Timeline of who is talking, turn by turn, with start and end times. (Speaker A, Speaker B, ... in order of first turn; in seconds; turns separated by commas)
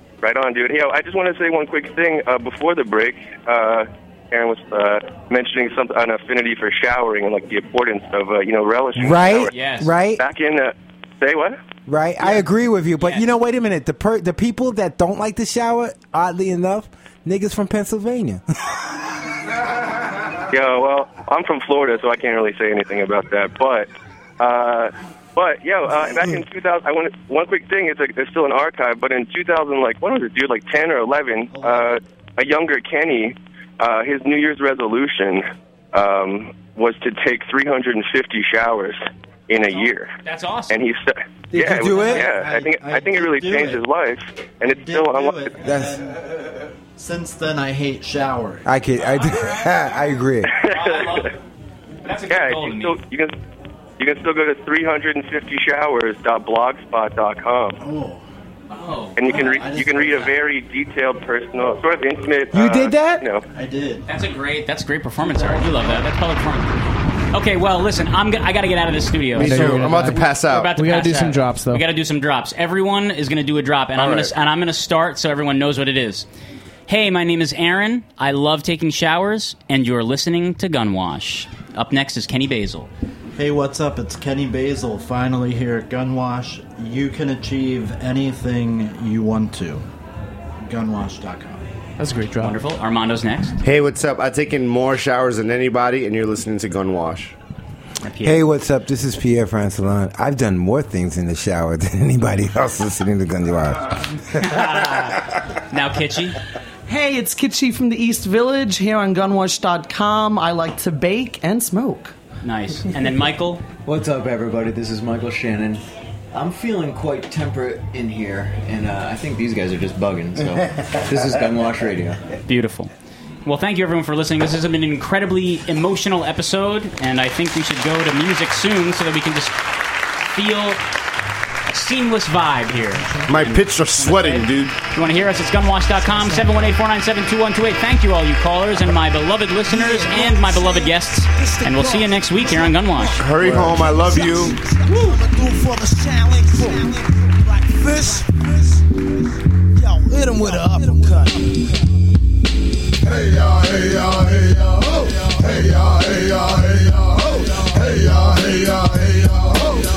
Speaker A: 0.2-9.5, Speaker B: 8.9-10.2, Speaker C: 9.5-9.9, Speaker A: 10.2-11.6, Speaker B: 11.9-18.4, Speaker C: 13.0-13.2, Speaker A: 20.5-40.1, Speaker D: 31.5-31.9, Speaker C: 39.8-40.8, Speaker A: 40.7-45.6, Speaker B: 41.5-42.3, Speaker D: 41.8-43.8, Speaker D: 44.6-48.7, Speaker B: 45.6-46.0, Speaker B: 48.6-50.5, Speaker C: 49.0-49.9, Speaker A: 50.5-51.3, Speaker C: 50.7-51.3, Speaker C: 52.0-53.0, Speaker A: 52.3-53.4, Speaker A: 54.0-57.8, Speaker D: 57.8-58.2, Speaker C: 58.7-59.6, Speaker A: 59.2-63.4, Speaker D: 59.2-60.3, Speaker B: 62.5-63.3, Speaker D: 63.5-64.1, Speaker C: 64.1-66.7, Speaker D: 65.2-66.0, Speaker C: 67.3-76.3, Speaker E: 69.3-70.7, Speaker F: 69.4-71.8, Speaker E: 74.0-74.3, Speaker C: 76.9-82.9, Speaker D: 83.3-89.8, Speaker D: 90.6-91.7, Speaker F: 92.0-92.6, Speaker C: 92.4-93.6, Speaker E: 93.6-97.3, Speaker C: 98.0-98.4, Speaker B: 98.2-104.7, Speaker C: 104.4-106.4, Speaker G: 106.9-112.1, Speaker C: 112.4-113.6, Speaker H: 113.8-122.2, Speaker C: 122.5-122.9, Speaker C: 123.4-129.6, Speaker C: 130.3-130.8, Speaker C: 131.7-143.2, Speaker E: 133.3-134.8, Speaker I: 139.7-148.9, Speaker E: 143.2-144.6, Speaker I: 149.7-151.7